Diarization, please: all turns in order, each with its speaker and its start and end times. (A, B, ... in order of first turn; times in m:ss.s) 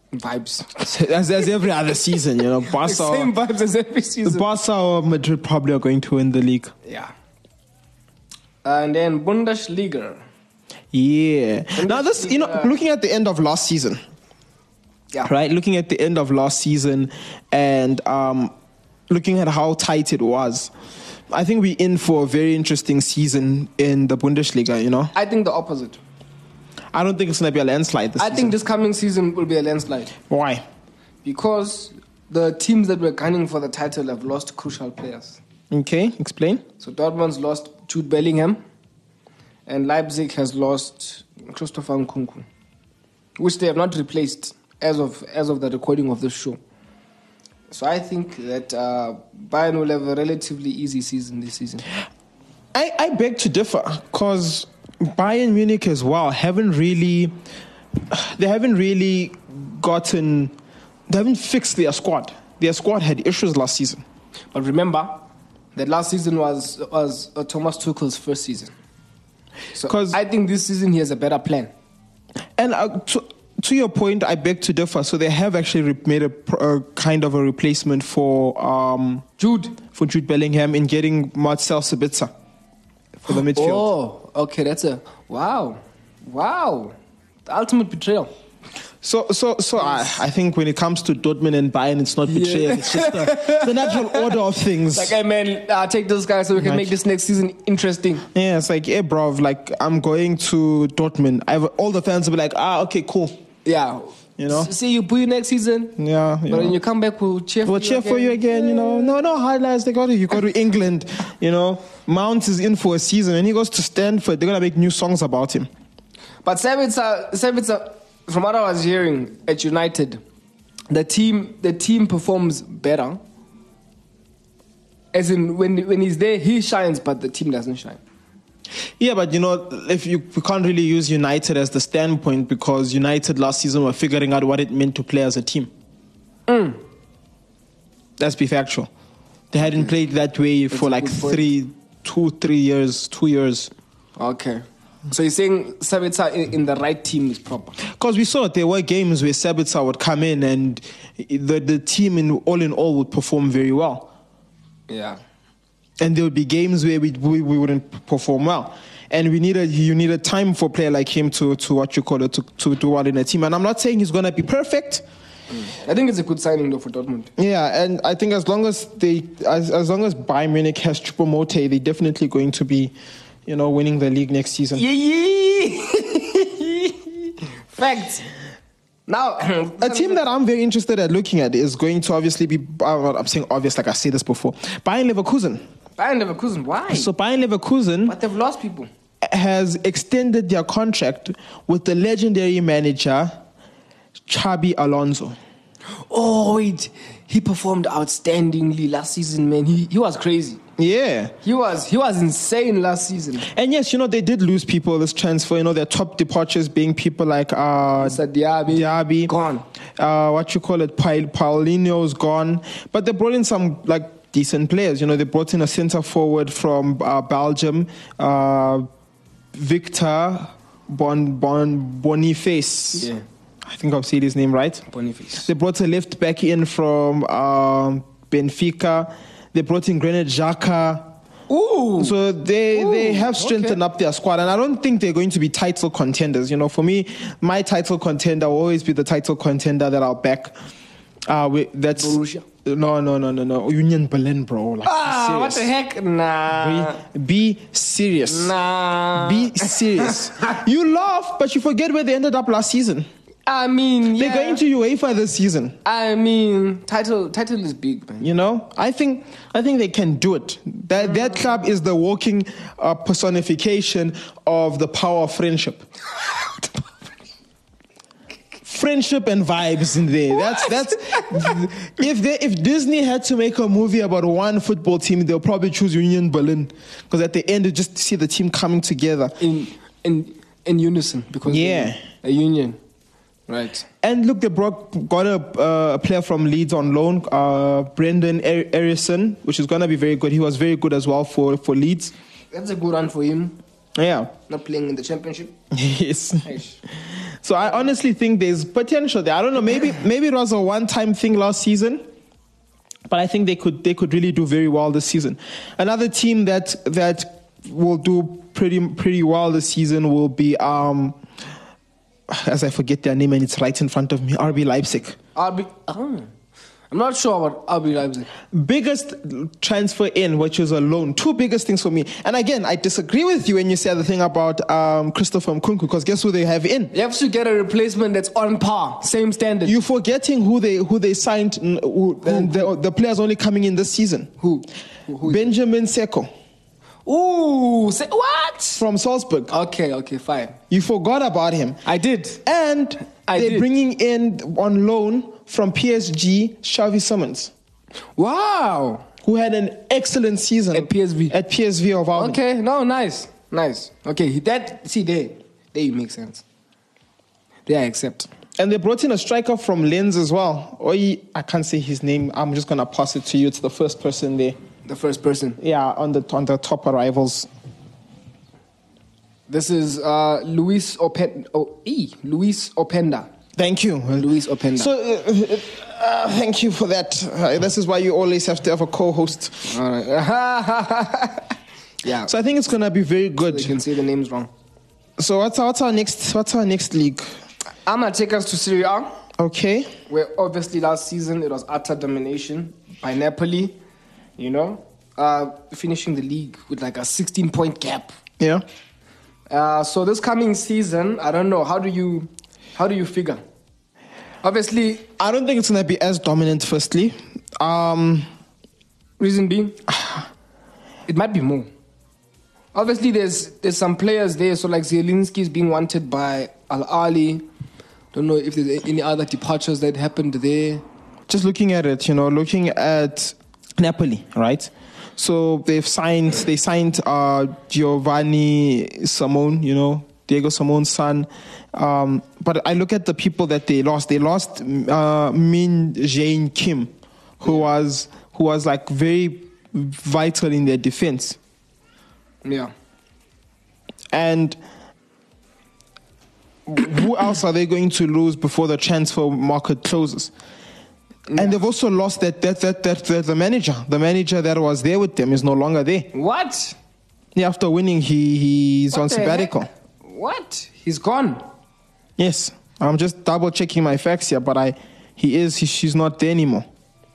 0:00.1-0:00.9 A
0:00.8-0:03.3 B
0:02.7-0:04.4 A
0:04.2-0:06.7 B
0:06.9-0:07.1 A
0:08.6-0:10.2 A
0:10.9-0:14.0 B
0:11.8-0:12.7 A
0:15.2-0:18.5 B
0:19.1-0:20.7 B
0:21.3-0:25.1 B
0:25.1-0:26.0 A
0:26.9-0:28.6 B
0:28.2-0:30.1 A
0:30.3-0:30.6 B
0:31.2-0:35.4 A
0:35.7-0:36.6 B
0:36.8-0:38.6 A
0:39.7-0:42.5 A
0:43.4-0:46.6 A
0:47.7-0:51.8 A
0:52.7-0:57.4 B
0:58.1-1:00.6 B
1:01.1-1:04.0 B
1:04.5-1:05.2 A
1:05.8-1:08.7 A
1:09.8-1:11.7 A
1:09.8-1:10.2 B
1:12.6-1:19.2 B
1:19.4-1:19.8 A
1:19.9-1:22.3 B
1:23.2-1:23.9 B
1:23.5-1:27.0 A
1:27.5-1:28.3 A
1:29.0-1:35.2 B
1:32.3-1:34.4 A
1:34.9-1:38.2 A
1:36.6-1:36.9 B
1:38.3-1:43.4 B
1:43.6-1:46.0 A
1:44.4-1:44.7 B
1:46.0-1:46.8 B
1:46.5-1:49.1 A
1:47.6-1:55.7 B
1:56.4-2:00.2 A
2:00.9-2:03.2 A
2:05.1-2:08.0 A
2:09.0-2:15.7 B
2:16.5-2:16.8 A
2:18.2-2:18.9 B
2:19.5-2:23.7 B
2:20.7-2:21.4 A
2:24.2-2:27.8 A
2:27.9-2:34.1 B
2:34.9-2:35.2 A
2:36.0-2:45.0 B
2:45.5-2:47.3 A
2:47.4-2:52.9 B
2:53.5-2:54.8 B
2:54.8-2:57.0 A
2:57.7-2:58.2 A
2:59.1-3:00.2 A
2:59.8-3:05.7 B
3:06.0-3:07.1 A
3:06.9-3:08.2 B
3:08.1-3:08.9 A
3:09.2-3:13.4 B
3:14.3-3:15.4 B
3:16.1-3:20.6 A
3:20.8-3:21.3 B
3:21.4-3:23.5 A
3:23.4-3:29.3 B
3:28.0-3:29.6 A
3:30.0-3:38.9 B
3:39.5-3:43.1 B
3:42.9-3:43.2 A
3:43.6-3:44.9 B
3:44.9-3:45.5 A
3:45.4-3:51.1 B
3:51.5-3:52.2 A
3:52.0-4:00.6 B
3:52.7-3:53.8 A
4:01.3-4:05.7 B
4:02.0-4:02.4 A
4:04.8-4:07.0 A
4:06.5-4:08.6 B
4:08.3-4:10.3 A
4:09.1-4:13.1 B
4:13.5-4:14.6 A
4:14.1-4:15.8 B
4:15.8-4:18.3 A
4:18.2-4:25.9 B
4:28.6-4:39.4 B
4:30.5-4:31.6 A
4:39.4-4:42.8 A
4:41.5-4:42.0 B
4:43.5-4:43.8 A
4:44.0-4:52.1 B
4:52.5-4:53.6 A
4:54.0-4:54.3 B
4:54.5-4:55.6 A
4:55.7-4:56.5 B
4:56.4-4:56.8 A
4:57.4-5:02.1 B
5:03.1-5:11.2 B
5:12.3-5:15.2 B
5:15.4-5:16.3 A
5:16.9-5:18.3 A
5:18.5-5:26.9 B
5:26.9-5:29.8 A
5:29.6-5:34.3 B
5:32.2-5:32.7 A
5:34.4-5:35.5 A
5:35.2-5:36.3 B
5:37.1-5:38.8 A
5:38.8-5:39.5 B
5:39.5-5:40.6 A
5:40.7-5:41.8 B
5:41.8-5:42.4 A
5:42.4-5:47.5 B
5:43.3-5:43.7 A
5:48.2-5:49.1 A
5:49.2-5:52.4 B
5:50.7-5:51.4 A
5:52.2-5:56.4 A
5:57.7-5:58.3 A
5:58.6-6:04.6 B
6:04.9-6:05.6 A
6:05.6-6:07.5 B
6:09.5-6:13.3 A
6:13.6-6:19.8 B
6:14.2-6:14.9 A
6:19.7-6:21.5 A
6:22.0-6:22.3 A
6:22.2-6:23.8 B
6:23.5-6:24.5 A
6:25.2-6:27.3 B
6:27.9-6:29.1 A
6:29.4-6:30.0 B
6:30.1-6:33.8 A
6:34.4-6:38.1 A
6:39.5-6:43.4 A
6:44.4-6:45.1 A
6:45.2-6:48.3 B
6:49.2-6:49.8 A
6:49.9-6:50.2 B
6:51.1-6:51.7 A
6:52.7-6:57.4 A
6:58.1-7:00.8 A
7:01.3-7:21.4 B
7:22.4-7:22.7 A
7:24.1-7:24.6 B
7:26.7-7:30.3 B
7:31.3-7:31.6 A
7:31.4-7:36.1 B
7:36.1-7:36.8 A
7:37.4-7:39.7 B
7:38.9-7:41.4 A
7:42.2-7:46.7 B